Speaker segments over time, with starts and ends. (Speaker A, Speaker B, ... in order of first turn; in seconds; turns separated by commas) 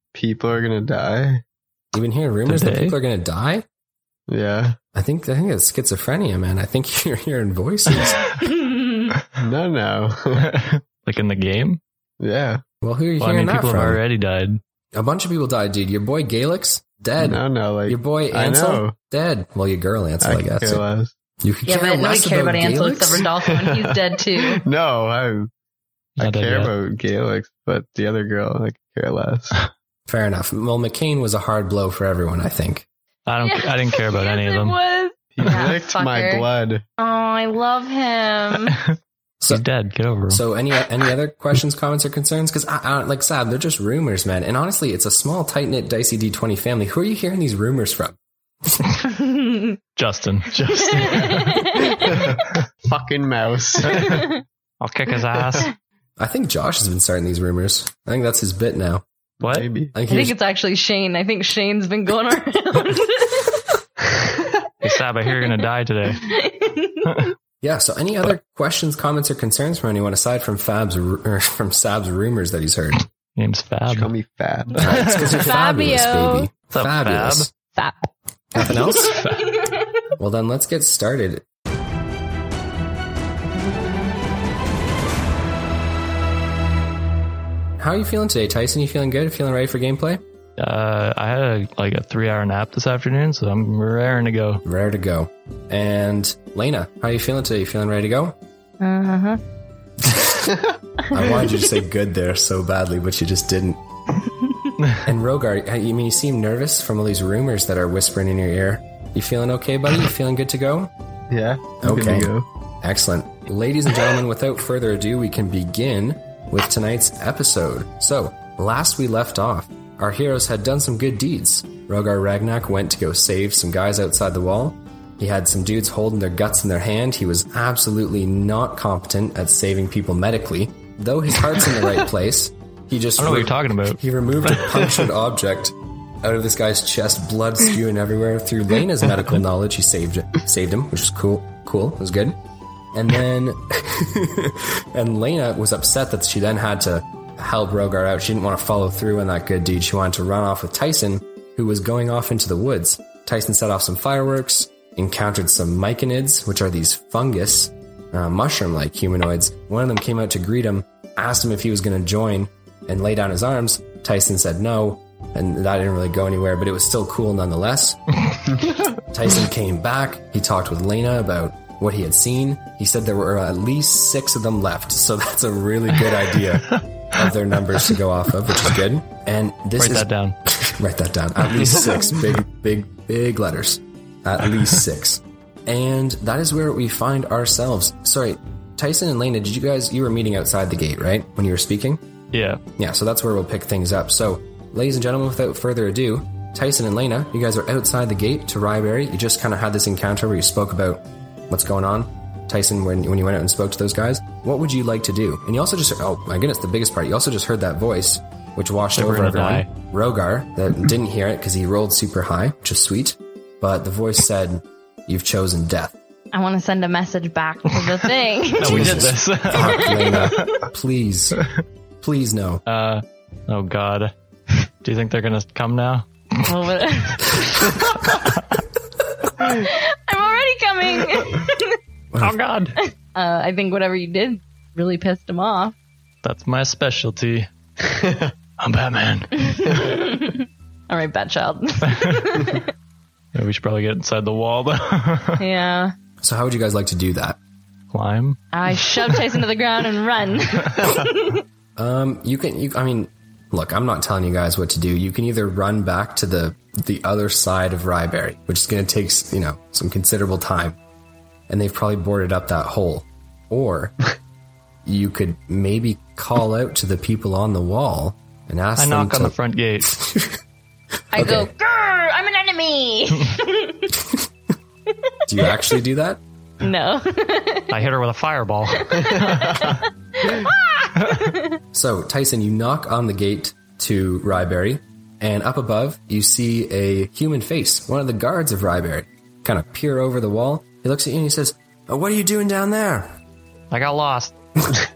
Speaker A: 0.1-1.4, Speaker B: 1.9-3.6, Speaker C: 2.5-3.0, Speaker A: 4.3-4.8, Speaker B: 4.9-8.2, Speaker D: 8.4-9.1, Speaker A: 9.4-10.5, Speaker C: 10.4-11.8, Speaker A: 12.2-12.6, Speaker B: 12.8-14.0, Speaker C: 13.2-14.6, Speaker B: 14.9-20.8, Speaker A: 17.2-18.9, Speaker A: 20.2-21.1, Speaker B: 21.4-23.3, Speaker D: 21.6-24.6, Speaker A: 23.4-25.5, Speaker C: 26.2-26.7, Speaker A: 26.2-29.7, Speaker B: 30.1-32.9, Speaker C: 33.2-34.8, Speaker D: 33.4-36.5, Speaker A: 35.3-36.8, Speaker D: 37.0-38.7, Speaker C: 39.5-40.4, Speaker B: 40.3-48.9, Speaker D: 49.2-49.7, Speaker C: 50.0-51.9, Speaker D: 50.9-52.3, Speaker A: 51.9-54.2, Speaker C: 53.8-54.3, Speaker D: 53.9-54.3, Speaker C: 54.8-55.7, Speaker A: 55.3-55.6, Speaker B: 56.2-59.0, Speaker C: 59.4-59.7, Speaker A: 59.4-59.9, Speaker B: 59.9-60.4, Speaker D: 60.1-63.6, Speaker C: 64.8-66.3, Speaker D: 66.2-67.2, Speaker B: 67.6-73.0, Speaker C: 73.3-74.1, Speaker A: 73.9-74.9, Speaker B: 74.8-77.5, Speaker C: 74.8-75.3, Speaker D: 75.3-76.5, Speaker C: 76.7-77.5, Speaker D: 77.7-79.7, Speaker B: 78.5-79.2, Speaker C: 79.1-79.5, Speaker B: 80.2-81.4, Speaker B: 87.8-90.2, Speaker C: 90.6-94.6, Speaker B: 94.6-98.3, Speaker D: 98.8-99.4, Speaker B: 100.0-100.5, Speaker A: 100.5-100.8, Speaker B: 101.1-103.8, Speaker B: 105.0-110.9, Speaker A: 111.3-112.5, Speaker B: 111.8-142.4, Speaker C: 133.2-134.7, Speaker B: 142.9-168.0, Speaker B: 169.0-192.0, Speaker C: 179.8-180.3, Speaker A: 181.7-182.0, Speaker C: 192.3-192.6, Speaker B: 192.8-215.9, Speaker C: 208.9-209.7, Speaker D: 216.3-220.6, Speaker C: 217.7-220.6, Speaker B: 218.6-221.4, Speaker B: 222.0-222.6, Speaker C: 222.7-226.5, Speaker D: 226.4-227.8, Speaker C: 227.7-228.4, Speaker D: 229.4-231.7, Speaker C: 232.2-232.8, Speaker D: 232.8-235.7, Speaker C: 236.2-237.5, Speaker A: 237.8-238.3, Speaker C: 238.6-239.8, Speaker D: 239.4-242.7, Speaker C: 241.9-242.3, Speaker C: 243.3-245.4, Speaker D: 245.4-245.9, Speaker B: 246.2-247.4, Speaker C: 247.9-249.2, Speaker D: 248.5-251.4, Speaker B: 251.8-260.8, Speaker B: 261.5-263.9, Speaker B: 264.8-270.4, Speaker C: 268.8-269.9, Speaker D: 271.1-273.9, Speaker B: 271.1-271.5, Speaker B: 275.3-276.2, Speaker D: 276.6-277.7, Speaker C: 277.7-279.8, Speaker D: 278.9-281.6, Speaker A: 279.1-279.5, Speaker B: 281.7-293.2, Speaker C: 293.7-294.3